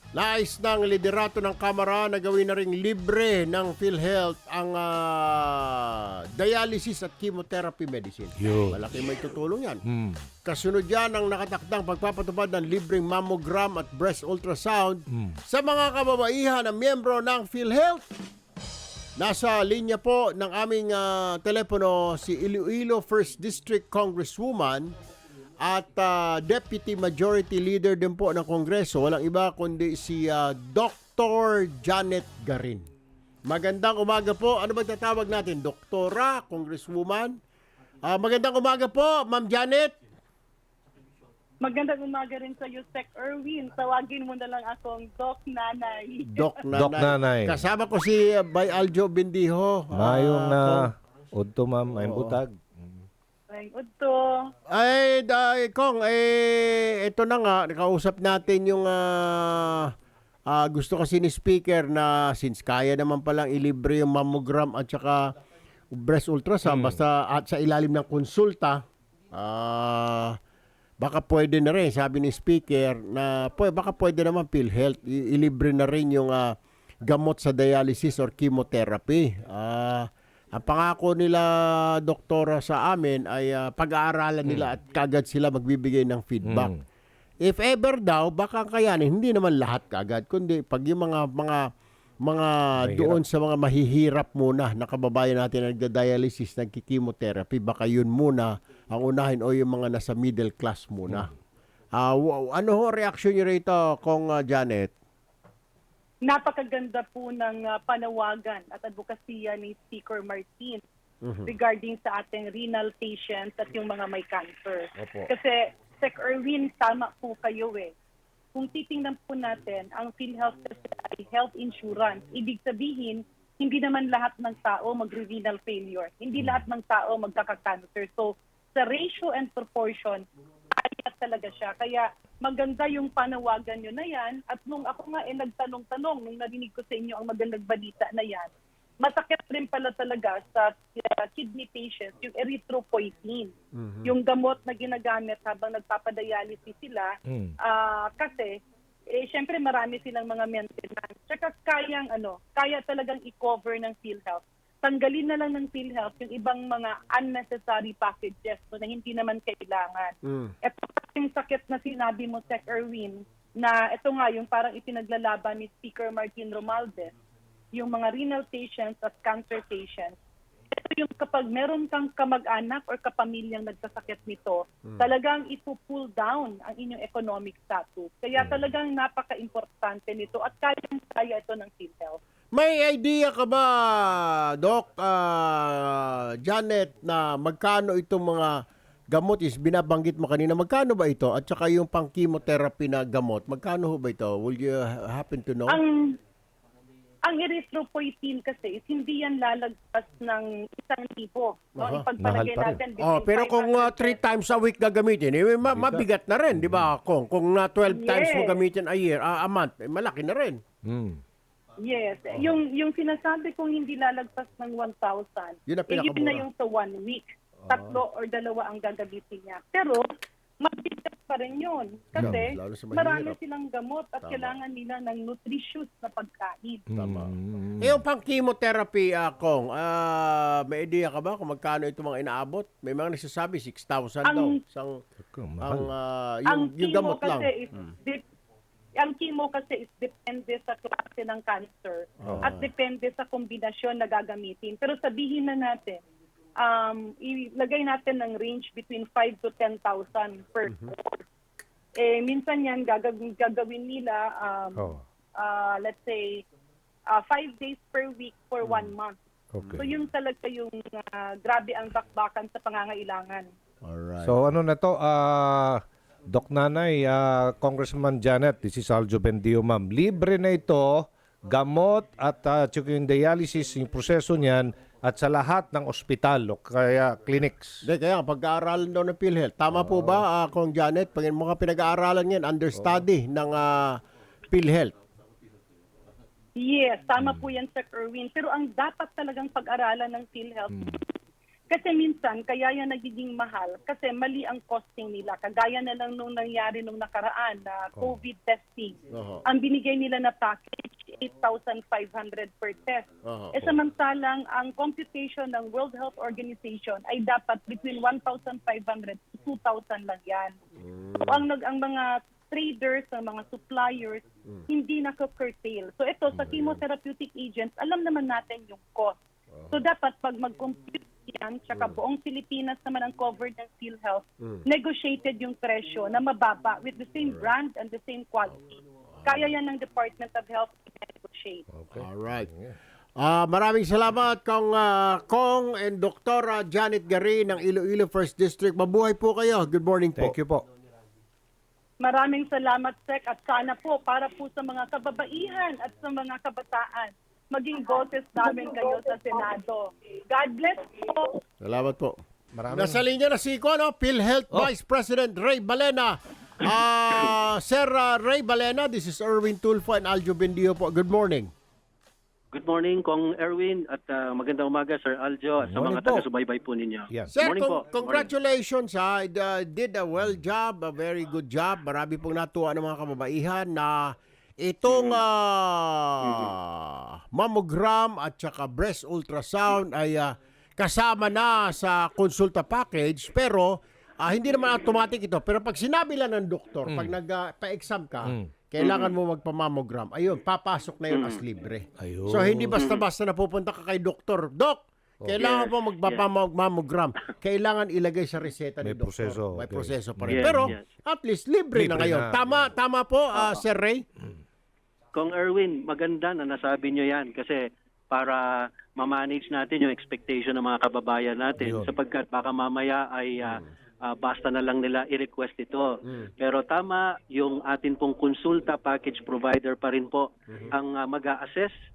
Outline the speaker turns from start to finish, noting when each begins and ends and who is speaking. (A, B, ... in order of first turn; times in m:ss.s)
0:00.2-0:09.8 A
0:08.4-0:08.8 B
0:09.9-0:10.3 B
0:10.4-0:18.0 A
0:19.2-0:24.9 A
0:25.6-0:32.9 A
0:33.5-0:37.4 A
0:38.0-0:39.9 A
0:41.6-0:46.5 C
0:46.3-0:50.8 A
0:46.7-0:47.6 B
0:49.9-0:53.1 B
0:52.0-0:52.4 A
0:53.5-0:54.5 C
0:54.7-0:59.9 A
1:00.5-1:05.3 A
1:05.9-1:08.8 A
1:06.7-1:07.0 B
1:09.3-1:10.4 A
1:11.0-1:16.5 A
1:17.0-1:26.7 A
1:24.4-1:24.7 B
1:26.4-1:26.8 B
1:27.4-1:31.6 A
1:32.2-1:41.3 A
1:32.8-1:33.2 B
1:42.0-1:44.9 A
1:46.2-1:50.8 C
1:51.2-1:51.5 A
1:51.5-1:57.9 C
1:55.0-1:55.3 A
1:58.5-2:10.2 C
2:10.8-2:23.5 C
2:23.8-2:24.2 A
2:24.0-2:27.1 C
2:27.3-2:27.6 B
2:27.6-2:28.5 C
2:29.1-2:47.1 C
2:40.2-2:40.5 A
2:47.7-2:50.1 C
2:50.8-3:02.2 C
3:02.5-3:08.5 A
3:09.1-3:15.8 A
3:15.7-3:16.2 C
3:17.2-3:24.2 C
3:21.8-3:22.1 A
3:22.2-3:22.8 B
3:23.0-3:30.6 A
3:25.7-3:26.9 B
3:27.9-3:28.6 C
3:30.9-3:31.2 B
3:31.8-3:40.0 C
3:35.7-3:36.5 A
3:37.6-3:38.0 A
3:40.6-3:46.8 C
3:42.2-3:43.4 A
3:44.2-3:44.6 A
3:46.9-3:48.0 B
3:47.0-3:55.0 A
3:54.2-3:54.6 C
3:55.2-3:55.9 B
3:55.6-3:57.5 A
3:56.5-3:58.2 C
3:59.0-4:06.0 C
4:02.2-4:02.5 B
4:02.2-4:02.7 A
4:06.6-4:11.2 C
4:10.7-4:10.9 A
4:12.0-4:16.4 C
4:14.8-4:15.0 B
4:17.1-4:19.2 C
4:18.6-4:18.9 A
4:19.5-4:19.9 B
4:19.8-4:23.5 C
4:23.8-4:24.4 A
4:24.2-4:37.8 B
4:37.8-4:44.0 A
4:39.7-4:40.2 B
4:42.8-4:43.0 B
4:44.5-4:44.9 A
4:46.6-4:51.0 C
4:50.7-4:51.0 B
4:51.7-5:10.6 C
4:59.1-4:59.5 A
5:03.2-5:03.6 A
5:10.8-5:11.5 A
5:11.3-5:19.2 C
5:16.4-5:16.8 A
5:19.7-5:28.6 C
5:27.2-5:27.5 A
5:29.2-5:29.5 A
5:29.2-5:31.6 C
5:31.7-5:32.8 B
5:32.0-5:32.5 A
5:33.2-5:40.4 A
5:40.2-5:40.6 B
5:42.0-5:51.3 C
5:51.6-5:52.2 A
5:52.6-5:53.0 B
5:52.7-6:01.5 A
6:02.5-6:08.3 D
6:05.6-6:06.3 B
6:07.3-6:44.0 A
6:14.9-6:15.2 D
6:16.2-6:16.5 D
6:26.9-6:27.2 B
6:28.8-6:29.2 D
6:31.1-6:31.4 D
6:32.0-6:32.8 B
6:32.8-6:33.0 D
6:35.4-6:36.3 D
6:38.8-6:40.8 B
6:40.3-6:40.8 D
6:41.8-6:42.4 B
6:43.4-6:43.6 D
6:45.1-7:01.7 D
6:51.6-6:51.9 B
6:53.4-6:53.7 A
7:00.5-7:00.8 A